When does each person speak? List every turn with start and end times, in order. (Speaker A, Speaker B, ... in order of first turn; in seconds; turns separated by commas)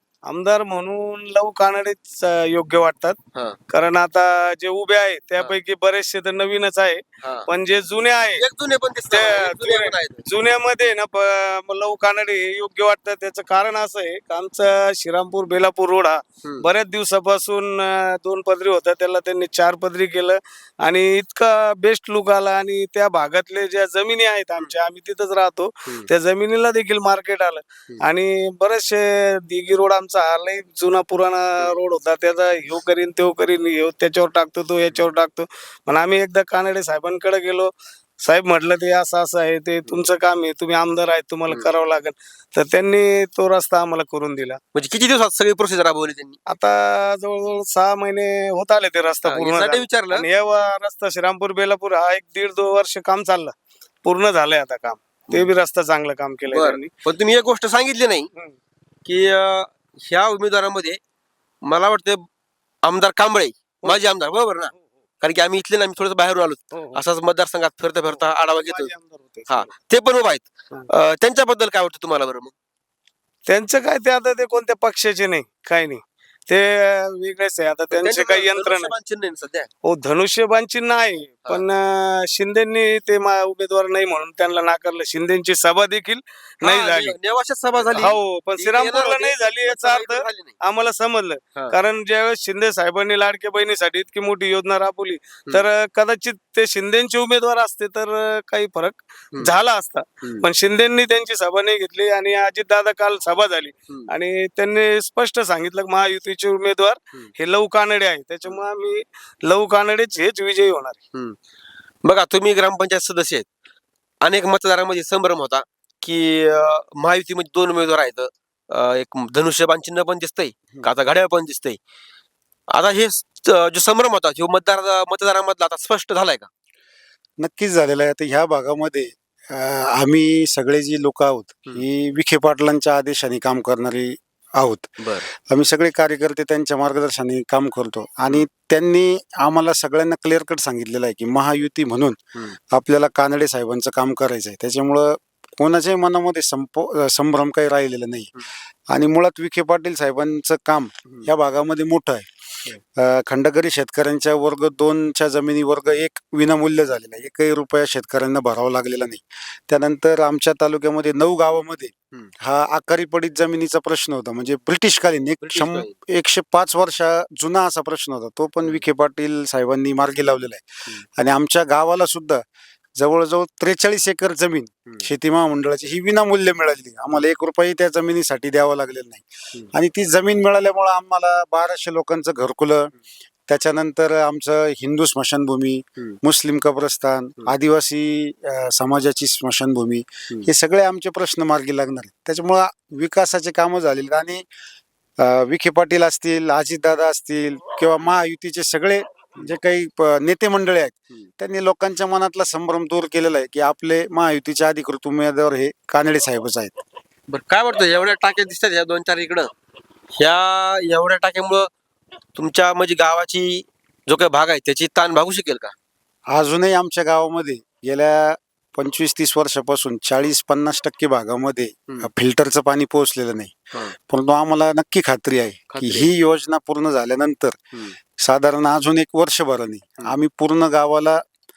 Speaker A: 0.2-3.2, Speaker A: 3.7-8.4, Speaker B: 7.2-7.5, Speaker B: 8.3-10.2, Speaker A: 9.1-44.6, Speaker B: 44.7-46.4, Speaker A: 46.5-53.5, Speaker B: 49.2-50.2, Speaker A: 54.0-56.9, Speaker B: 56.5-58.3, Speaker B: 59.0-61.0, Speaker B: 61.6-62.2, Speaker B: 62.8-68.9, Speaker A: 66.7-67.0, Speaker A: 68.1-69.7, Speaker B: 69.5-72.5, Speaker A: 73.5-78.9, Speaker B: 77.9-79.7, Speaker A: 79.8-87.2, Speaker B: 86.6-90.5, Speaker A: 87.9-111.0, Speaker B: 112.0-113.5, Speaker B: 114.2-121.8, Speaker B: 122.7-126.5, Speaker C: 127.4-148.3, Speaker B: 135.0-135.3, Speaker C: 148.9-152.3, Speaker C: 152.9-170.6, Speaker B: 165.4-165.9, Speaker C: 171.1-172.4, Speaker C: 173.0-182.9, Speaker C: 183.5-194.4, Speaker C: 195.2-206.8, Speaker B: 207.3-209.5, Speaker B: 210.2-211.7, Speaker B: 212.3-215.7, Speaker C: 216.3-227.6, Speaker B: 225.7-226.1, Speaker C: 228.2-231.2